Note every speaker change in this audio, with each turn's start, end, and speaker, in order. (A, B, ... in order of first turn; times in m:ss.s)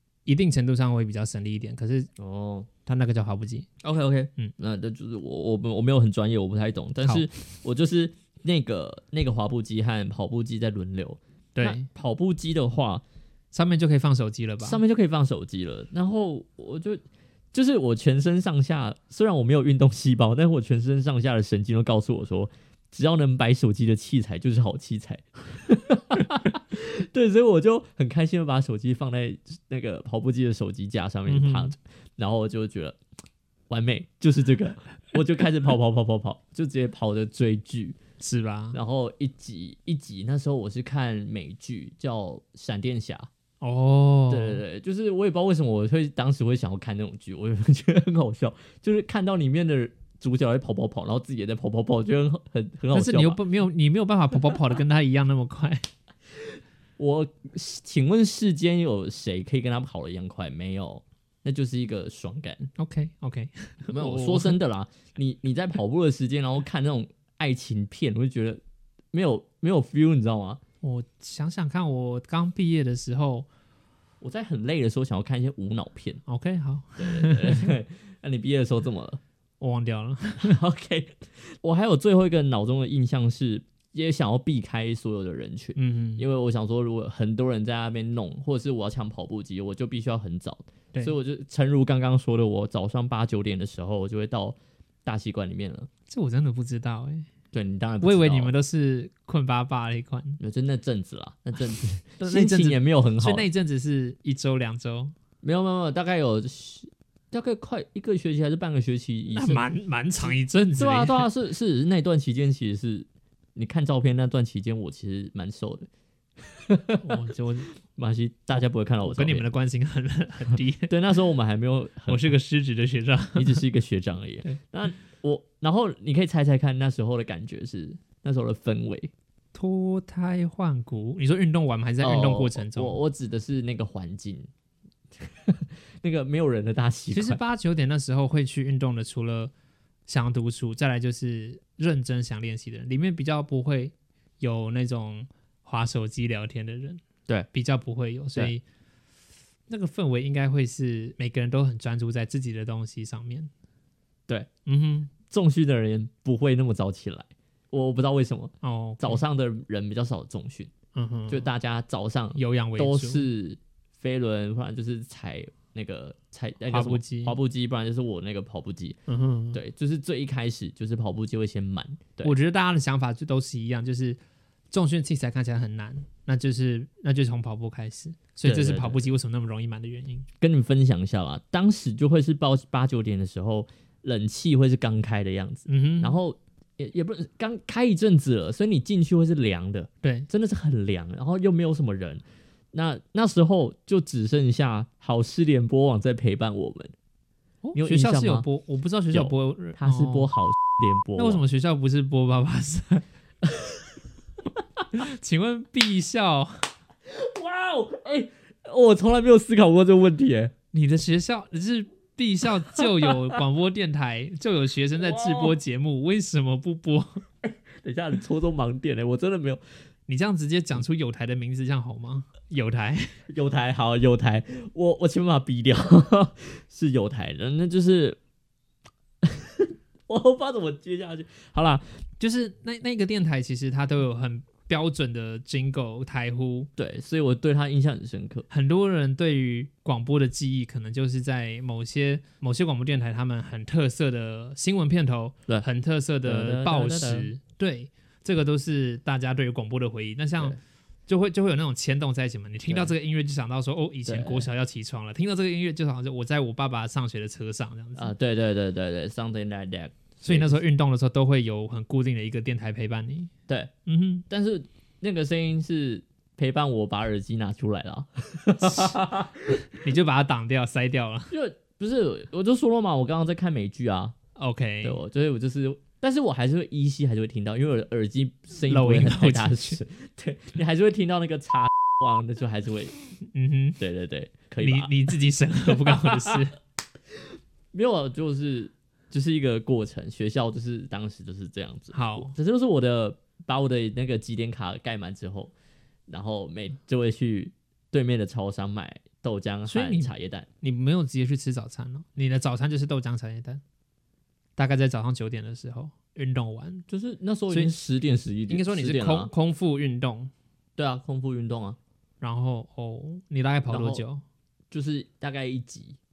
0:00.3-0:02.1 A
0:02.2-0:02.7 B
0:02.9-0:03.7 A
0:03.8-0:13.0 B
0:07.0-0:07.3 A
0:11.6-0:11.9 A
0:13.5-0:14.8 A
0:14.6-0:33.0 B
0:31.3-0:31.7 A
0:33.7-0:38.0 B
0:38.2-0:38.8 A
0:38.7-0:43.3 B
0:43.6-0:44.6 A
0:44.3-0:53.4 B
0:52.9-0:55.8 A
0:56.3-1:02.7 B
1:02.8-1:04.6 A
1:03.9-1:08.6 B
1:09.1-1:10.6 B
1:10.8-1:13.5 A
1:14.2-1:16.2 B
1:16.3-1:17.7 A
1:17.0-1:19.2 B
1:19.6-1:20.6 A
1:20.4-1:35.9 B
1:25.8-1:26.2 A
1:36.1-1:37.3 A
1:37.5-1:38.5 B
1:38.0-1:40.4 A
1:40.4-1:43.4 B
1:42.2-1:45.1 A
1:45.4-1:49.7 B
1:49.3-1:51.3 A
1:50.2-1:55.9 B
1:56.4-1:57.2 B
1:57.0-1:57.7 A
1:57.9-1:59.5 B
1:59.0-2:00.9 A
2:00.9-2:02.3 B
2:02.1-2:03.6 A
2:03.4-2:09.1 B
2:09.5-2:13.0 A
2:12.0-2:14.5 B
2:15.1-2:17.4 B
2:17.1-2:19.5 A
2:20.1-2:28.6 A
2:29.7-2:33.5 A
2:34.7-2:35.1 A
2:35.3-2:40.7 B
2:38.6-2:39.2 A
2:41.0-2:41.5 A
2:41.3-2:49.0 B
2:42.4-2:43.3 A
2:46.7-2:47.4 A
2:49.1-2:49.6 A
2:49.5-2:52.4 B
2:52.2-2:54.2 A
2:54.7-3:00.3 A
2:58.4-2:59.0 B
3:00.4-3:16.9 B
3:05.7-3:06.2 A
3:10.0-3:10.3 A
3:17.6-3:20.3 A
3:17.8-3:18.5 B
3:19.1-3:21.4 B
3:21.2-3:23.0 A
3:23.4-3:23.8 B
3:24.9-3:26.6 A
3:27.1-3:30.5 B
3:30.7-3:37.2 A
3:32.8-3:33.4 B
3:35.0-3:35.6 B
3:37.4-3:39.6 B
3:40.1-3:43.2 A
3:43.3-3:48.2 B
3:49.2-3:51.8 B
3:52.2-3:56.7 A
3:56.8-3:58.5 B
3:58.5-4:18.1 A
4:06.2-4:07.3 B
4:14.1-4:14.5 B
4:18.0-4:20.6 B
4:20.2-4:23.3 A
4:23.9-4:24.2 A
4:24.3-4:29.6 B
4:28.6-4:29.0 A
4:29.7-4:31.3 A
4:31.3-4:34.2 B
4:34.4-4:35.0 A
4:34.8-4:43.0 B
4:38.7-4:39.8 A
4:43.3-4:43.8 A
4:43.8-4:45.2 B
4:44.6-4:46.6 A
4:45.7-4:46.4 B
4:47.7-4:55.5 B
4:51.9-4:52.3 A
4:56.1-5:00.5 B
4:59.7-5:03.6 A
5:04.6-5:06.8 A
5:06.9-5:09.3 B
5:07.5-5:07.8 A
5:08.5-5:10.3 A
5:10.8-5:11.8 B
5:12.2-5:14.2 A
5:13.7-5:14.0 B
5:14.7-5:16.0 B